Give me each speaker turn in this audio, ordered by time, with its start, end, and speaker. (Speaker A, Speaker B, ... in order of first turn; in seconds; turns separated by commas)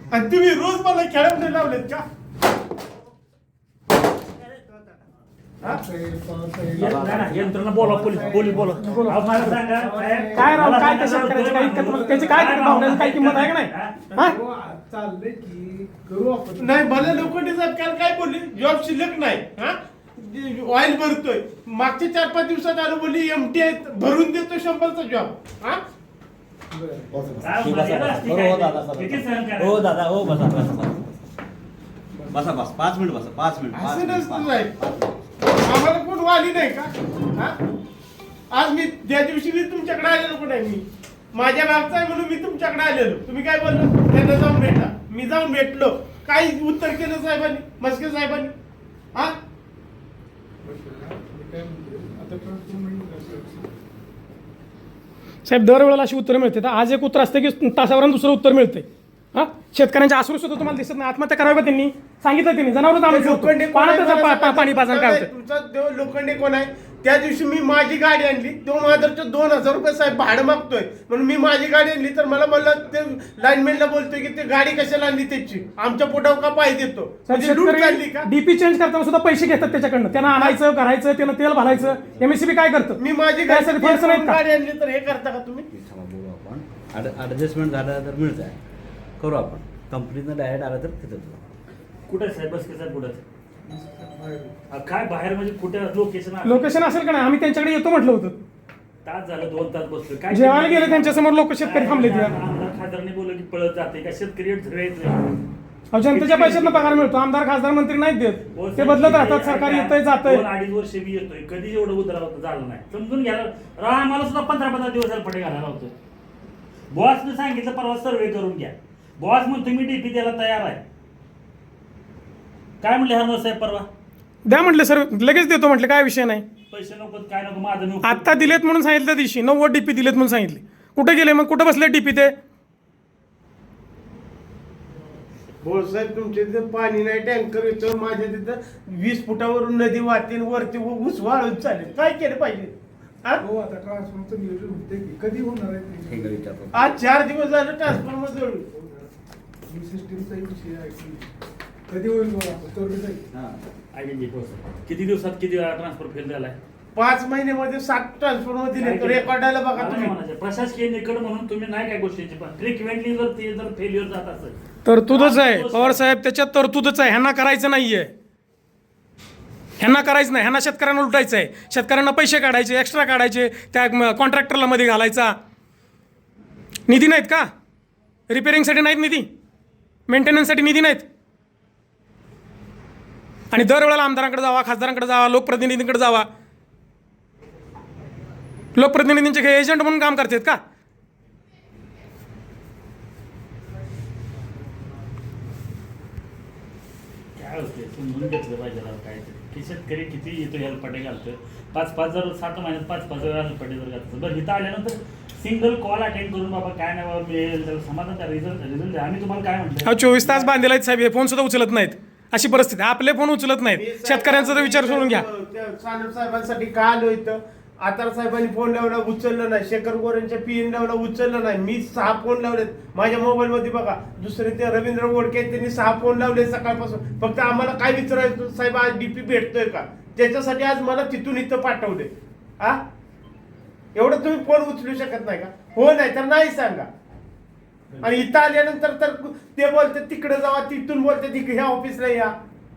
Speaker A: 0.1-2.0, Speaker B: 5.6-9.2, Speaker C: 6.8-14.1, Speaker D: 6.8-7.5, Speaker E: 8.9-9.5, Speaker B: 9.7-10.9, Speaker E: 10.3-14.4, Speaker B: 11.8-12.6, Speaker B: 14.2-17.4, Speaker A: 16.6-25.8, Speaker B: 26.7-27.2, Speaker D: 27.1-31.2, Speaker C: 27.4-29.9, Speaker B: 32.1-32.5, Speaker D: 32.3-35.1, Speaker A: 33.7-34.7, Speaker A: 35.5-37.6, Speaker A: 38.5-48.5, Speaker B: 50.6-53.7, Speaker E: 55.5-65.3, Speaker A: 63.1-78.3, Speaker E: 77.3-84.4, Speaker A: 83.0-85.7, Speaker D: 85.7-88.6, Speaker D: 89.2-91.5, Speaker C: 92.1-93.2, Speaker B: 93.7-94.5, Speaker C: 94.7-96.8, Speaker E: 96.4-98.4, Speaker C: 99.0-105.4, Speaker E: 100.3-102.3, Speaker E: 105.9-110.5, Speaker C: 106.1-107.2, Speaker C: 108.5-115.9, Speaker C: 116.9-120.8, Speaker C: 122.8-123.9, Speaker E: 124.5-126.5, Speaker C: 126.7-128.6, Speaker E: 128.0-132.3, Speaker A: 135.6-142.7, Speaker B: 143.4-146.4, Speaker D: 146.1-146.9, Speaker A: 146.7-148.7, Speaker B: 149.7-151.3, Speaker B: 151.9-153.2, Speaker D: 153.3-153.6, Speaker C: 153.9-156.6, Speaker A: 156.9-160.1, Speaker C: 158.8-164.6, Speaker E: 164.9-168.1, Speaker C: 165.1-166.0, Speaker E: 169.8-175.3, Speaker E: 176.9-177.4, Speaker E: 178.3-179.2, Speaker E: 180.1-181.1, Speaker E: 183.5-186.3, Speaker E: 188.8-190.6, Speaker C: 197.4-210.3, Speaker E: 209.8-215.2, Speaker A: 213.7-232.8, Speaker A: 233.9-236.9, Speaker A: 238.0-242.3